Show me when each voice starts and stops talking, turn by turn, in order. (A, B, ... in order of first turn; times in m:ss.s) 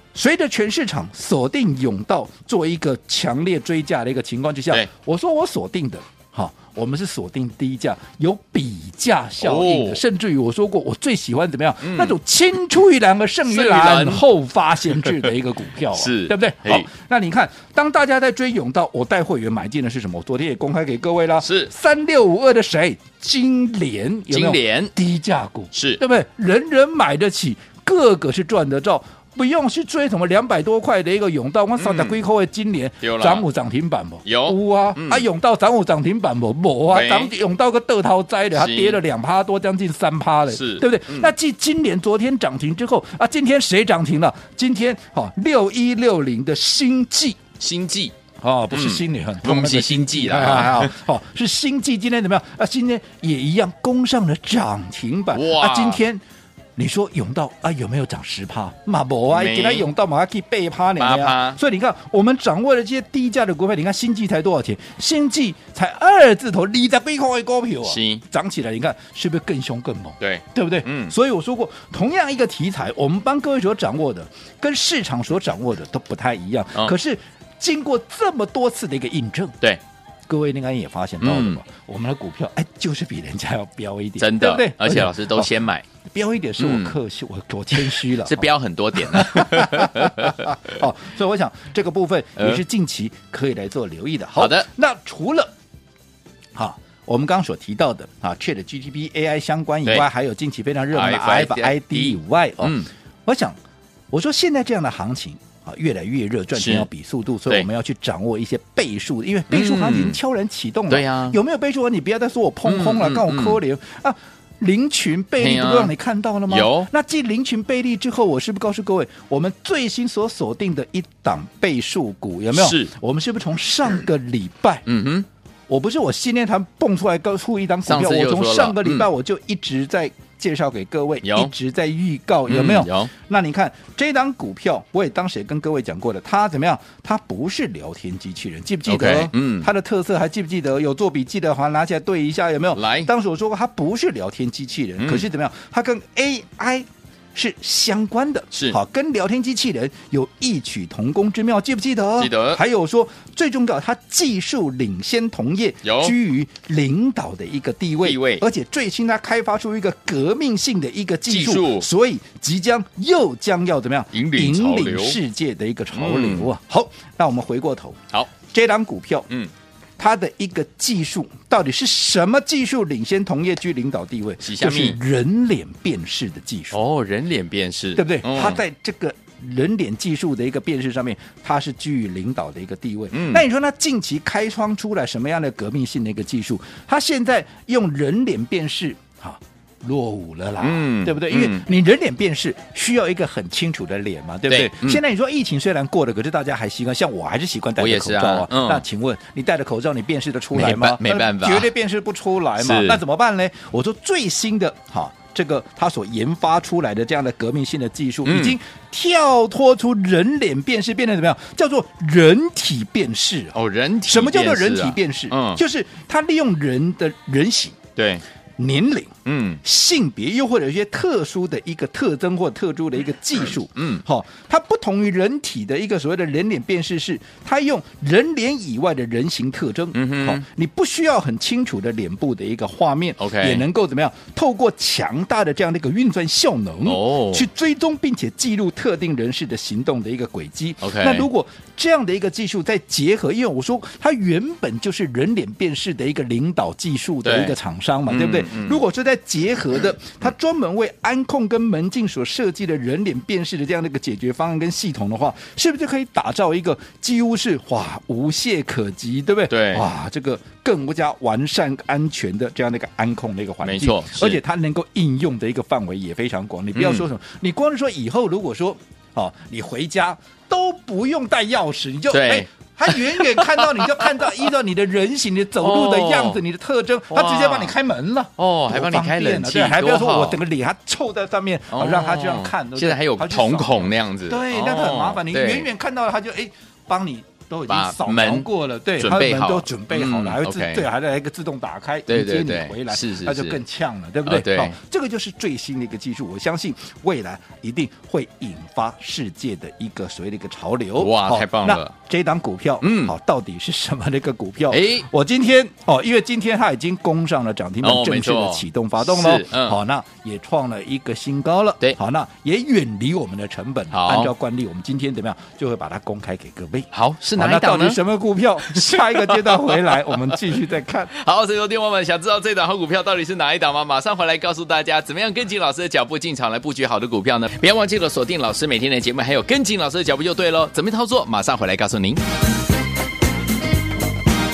0:00.1-0:47.4 A
0:09.4-0:10.0 B
0:11.8-0:12.2 B
0:13.4-0:14.2 B
0:14.9-0:15.3 B
0:15.9-0:16.9 B
0:21.4-0:21.7 B
0:24.3-0:24.9 B
0:25.7-0:26.0 B
0:31.8-0:32.2 B
0:33.0-0:33.4 B
0:34.2-0:35.2 B
0:36.9-0:37.3 B
0:38.5-0:39.0 B
0:40.5-0:41.3 B
0:47.6-0:48.1 B
0:48.4-0:56.2 A
0:48.7-0:51.0 B
0:55.3-0:56.0 B
0:56.8-1:19.6 A
0:59.3-0:59.9 B
1:01.0-1:01.6 B
1:07.8-1:08.2 B
1:10.2-1:11.1 B
1:20.3-1:25.5 A
1:21.2-1:21.6 B
1:24.2-1:25.8 B
1:26.1-1:35.5 A
1:26.6-1:27.0 B
1:27.7-1:30.7 B
1:34.4-1:34.7 B
1:36.5-1:43.6 A
1:40.9-1:42.9 B
1:44.1-2:04.8 A
1:46.5-1:46.9 B
1:49.5-1:50.2 B
1:50.9-1:51.4 B
1:52.6-1:53.6 B
1:55.4-1:55.9 B
1:56.5-1:56.9 B
2:02.5-2:02.9 B
2:04.8-2:05.3 B
2:05.7-2:49.3 A
2:07.8-2:09.1 B
2:11.2-2:11.5 B
2:12.5-2:13.1 B
2:18.8-2:19.7 B
2:22.7-2:23.1 B
2:25.0-2:25.2 B
2:28.5-2:28.8 B
2:32.2-2:32.6 B
2:35.8-2:36.1 B
2:38.0-2:38.4 B
2:41.3-2:41.9 B
2:44.1-2:45.2 B
2:45.9-2:46.5 B
2:50.0-2:56.8 A
2:54.4-2:55.0 B
2:56.7-2:58.6 B
2:57.9-3:37.8 A
3:03.1-3:03.4 B
3:10.6-3:11.6 B
3:14.5-3:15.0 B
3:17.8-3:18.8 B
3:20.5-3:21.7 B
3:22.6-3:23.0 B
3:28.2-3:28.6 B
3:33.5-3:35.6 B
3:38.0-3:38.2 B
3:38.6-5:21.1 A
3:39.2-3:39.6 B
3:43.8-3:44.0 B
3:49.9-3:50.4 B
3:53.2-3:53.6 B
3:56.8-3:57.4 B
4:00.8-4:01.3 B
4:07.2-4:07.6 B
4:08.1-4:08.8 B
4:19.5-4:19.9 B
4:23.6-4:24.4 B
4:26.7-4:27.0 B
4:32.1-4:34.5 B
4:35.6-4:36.4 B
4:37.1-4:37.7 B
4:38.4-4:40.4 B
4:41.7-4:45.7 B
4:47.7-4:50.9 B
4:52.1-4:53.6 B
4:54.2-4:54.8 B
5:01.0-5:01.9 B
5:02.8-5:03.1 B
5:04.7-5:05.0 B
5:07.8-5:09.8 B
5:13.9-5:14.3 B
5:16.9-5:18.0 B
5:18.6-5:20.4 B
5:21.1-5:32.2 B